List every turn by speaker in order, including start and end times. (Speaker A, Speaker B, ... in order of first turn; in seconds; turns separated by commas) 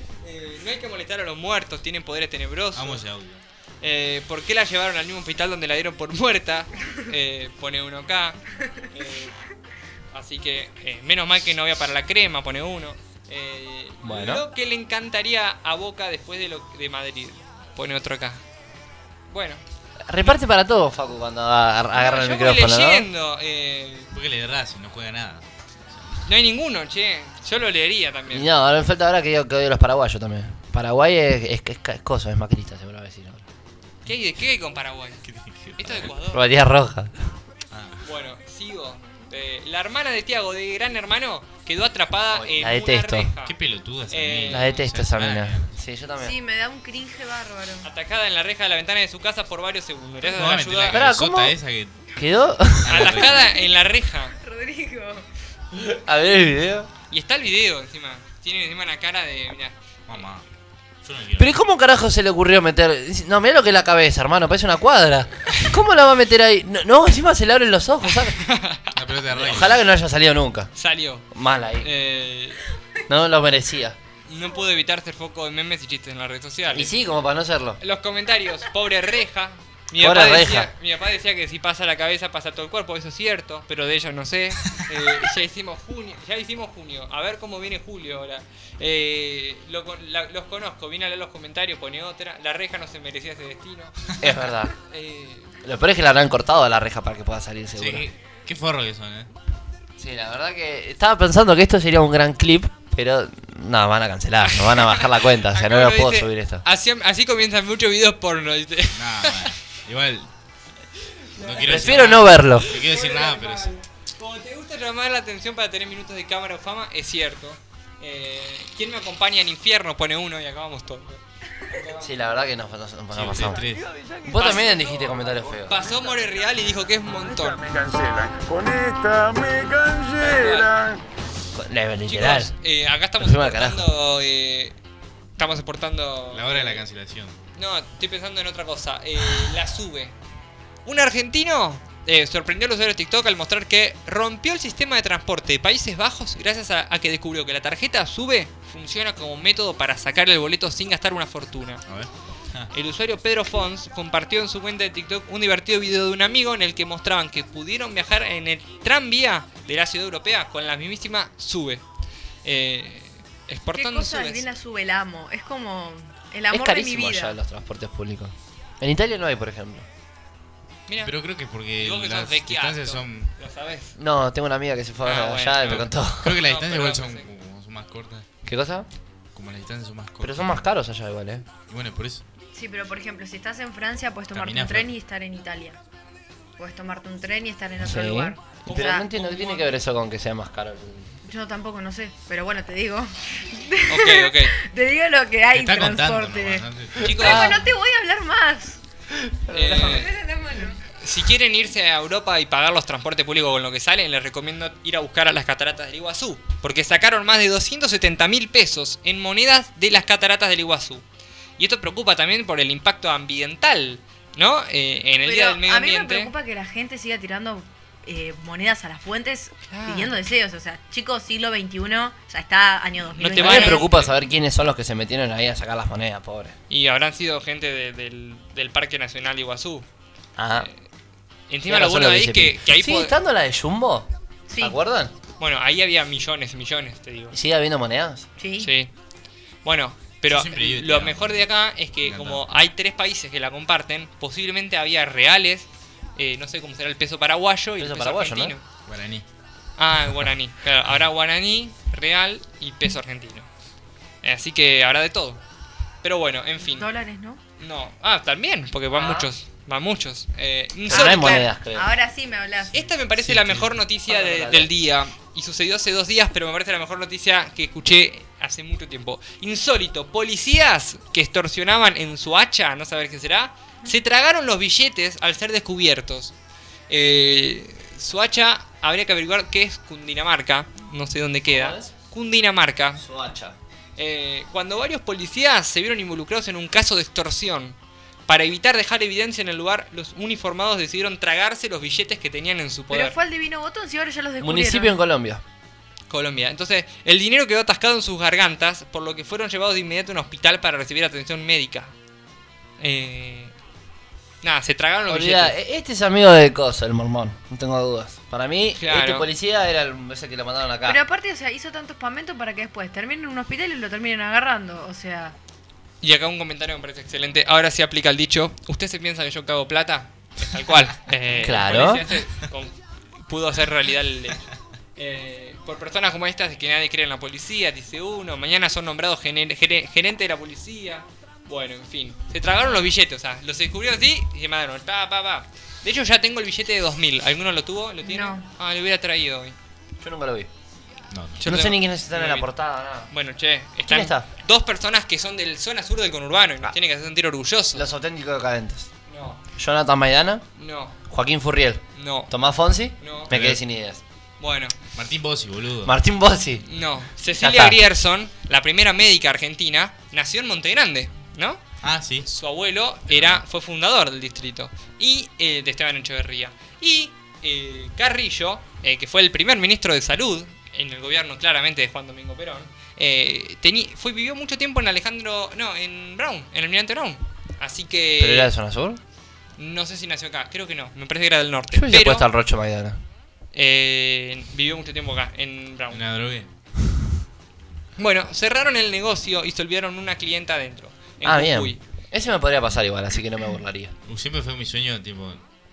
Speaker A: 0.2-3.0, Speaker B: 2.7-3.4, Speaker A: 3.8-9.4, Speaker A: 10.1-18.4, Speaker C: 14.0-14.4, Speaker A: 19.3-19.6, Speaker C: 20.1-23.1, Speaker A: 21.9-24.1, Speaker B: 24.1-26.1, Speaker A: 26.2-28.5, Speaker C: 28.3-33.4, Speaker A: 34.0-35.2, Speaker B: 35.2-36.1, Speaker A: 35.8-36.4, Speaker C: 36.3-37.2, Speaker B: 37.7-38.0, Speaker A: 38.0-43.5, Speaker C: 42.3-43.3, Speaker B: 43.4-45.7, Speaker A: 44.1-44.7, Speaker C: 44.5-46.3, Speaker D: 46.2-47.9, Speaker A: 47.8-51.0, Speaker B: 50.2-52.0, Speaker C: 50.9-51.6, Speaker C: 52.1-53.4, Speaker B: 52.8-53.5, Speaker A: 52.9-54.4, Speaker D: 53.2-55.2, Speaker C: 55.7-56.9, Speaker A: 57.1-60.1, Speaker B: 60.1-60.4, Speaker B: 61.0-61.5, Speaker C: 61.4-68.4, Speaker A: 68.3-68.9, Speaker B: 68.9-69.8, Speaker C: 69.3-70.7, Speaker A: 70.8-71.3, Speaker C: 71.3-71.9, Speaker A: 71.8-72.6, Speaker C: 73.1-74.0, Speaker A: 74.3-76.9, Speaker C: 76.7-77.8, Speaker A: 77.8-94.2, Speaker C: 80.0-80.7, Speaker C: 94.2-94.7, Speaker A: 94.9-95.5, Speaker C: 95.6-98.1, Speaker B: 97.7-99.3, Speaker C: 100.0-106.6, Speaker A: 104.5-109.6, Speaker B: 108.9-110.3, Speaker A: 111.1-122.2, Speaker B: 111.4-113.7, Speaker C: 111.6-112.8, Speaker C: 122.0-125.9, Speaker B: 123.1-123.9, Speaker A: 124.2-127.7, Speaker C: 127.7-131.0, Speaker A: 130.2-130.9, Speaker C: 131.5-132.5, Speaker A: 132.1-134.8, Speaker C: 133.2-133.9, Speaker A: 135.4-136.8, Speaker B: 136.3-137.4, Speaker A: 137.6-140.1, Speaker A: 140.8-151.8, Speaker B: 151.9-152.7, Speaker A: 152.7-161.8, Speaker A: 162.4-164.4, Speaker D: 163.7-167.4, Speaker C: 166.5-169.8, Speaker A: 170.9-171.2, Speaker B: 171.0-173.3, Speaker A: 171.8-173.9, Speaker C: 174.0-176.4, Speaker A: 175.0-175.9, Speaker B: 175.7-178.2, Speaker A: 176.4-177.3, Speaker C: 178.4-178.9, Speaker B: 179.3-180.6, Speaker C: 180.2-181.5, Speaker B: 181.7-182.2, Speaker D: 182.5-185.8, Speaker B: 184.3-184.9, Speaker D: 186.6-189.1, Speaker C: 187.8-191.1, Speaker A: 188.7-189.8, Speaker D: 191.2-196.7, Speaker A: 193.9-194.5, Speaker B: 195.5-197.5, Speaker C: 197.0-197.6, Speaker A: 197.0-197.6, Speaker D: 197.2-198.8, Speaker C: 199.1-200.1, Speaker A: 199.5-200.1, Speaker D: 199.7-200.8, Speaker A: 200.9-211.0, Speaker A: 211.6-216.3, Speaker D: 215.2-223.9, Speaker A: 219.7-220.1, Speaker A: 223.2-224.2, Speaker C: 223.3-226.5, Speaker A: 226.7-229.8, Speaker C: 230.4-230.7, Speaker A: 231.5-233.1, Speaker C: 231.7-235.1, Speaker D: 234.5-234.8, Speaker A: 235.4-237.3, Speaker C: 237.3-238.3, Speaker D: 238.4-238.7, Speaker A: 238.6-238.9, Speaker A: 239.6-248.6, Speaker B: 240.3-241.4, Speaker B: 242.0-242.5, Speaker C: 247.8-248.5, Speaker B: 248.8-249.2, Speaker A: 249.8-253.5, Speaker A: 254.2-255.4, Speaker A: 256.0-256.9, Speaker D: 256.7-257.4, Speaker A: 257.6-261.5, Speaker C: 260.9-261.9, Speaker D: 260.9-262.8, Speaker A: 262.7-276.3, Speaker B: 263.2-263.7, Speaker C: 264.1-264.7, Speaker A: 276.9-283.0, Speaker C: 281.5-281.9, Speaker C: 283.0-283.6, Speaker A: 284.0-287.8, Speaker A: 288.3-293.1, Speaker D: 292.9-294.9, Speaker C: 294.4-295.4, Speaker A: 296.1-301.9, Speaker A: 302.8-303.5, Speaker A: 304.4-305.5, Speaker C: 305.1-311.0, Speaker A: 308.8-309.3, Speaker D: 310.8-315.4, Speaker A: 316.0-339.6, Speaker C: 321.4-322.1, Speaker D: 338.0-338.5, Speaker C: 340.0-340.5, Speaker B: 341.1-341.4, Speaker A: 341.4-342.5, Speaker C: 341.4-343.1, Speaker A: 343.1-347.9, Speaker C: 343.9-344.3, Speaker C: 347.7-348.9, Speaker A: 349.1-349.4, Speaker C: 349.6-350.4, Speaker A: 350.6-350.9, Speaker C: 351.1-354.0, Speaker A: 351.9-352.3, Speaker A: 353.0-353.3, Speaker B: 353.3-353.6, Speaker A: 354.4-354.7, Speaker B: 354.9-355.9, Speaker C: 355.8-356.6, Speaker A: 356.6-361.6, Speaker C: 357.4-357.8, Speaker B: 361.8-362.3, Speaker A: 362.2-378.5, Speaker B: 363.1-363.4, Speaker C: 378.2-379.0, Speaker A: 379.6-382.3, Speaker C: 381.7-383.0, Speaker A: 383.5-386.1, Speaker B: 385.9-386.5, Speaker A: 388.0-391.8, Speaker C: 391.2-393.9, Speaker B: 394.1-395.4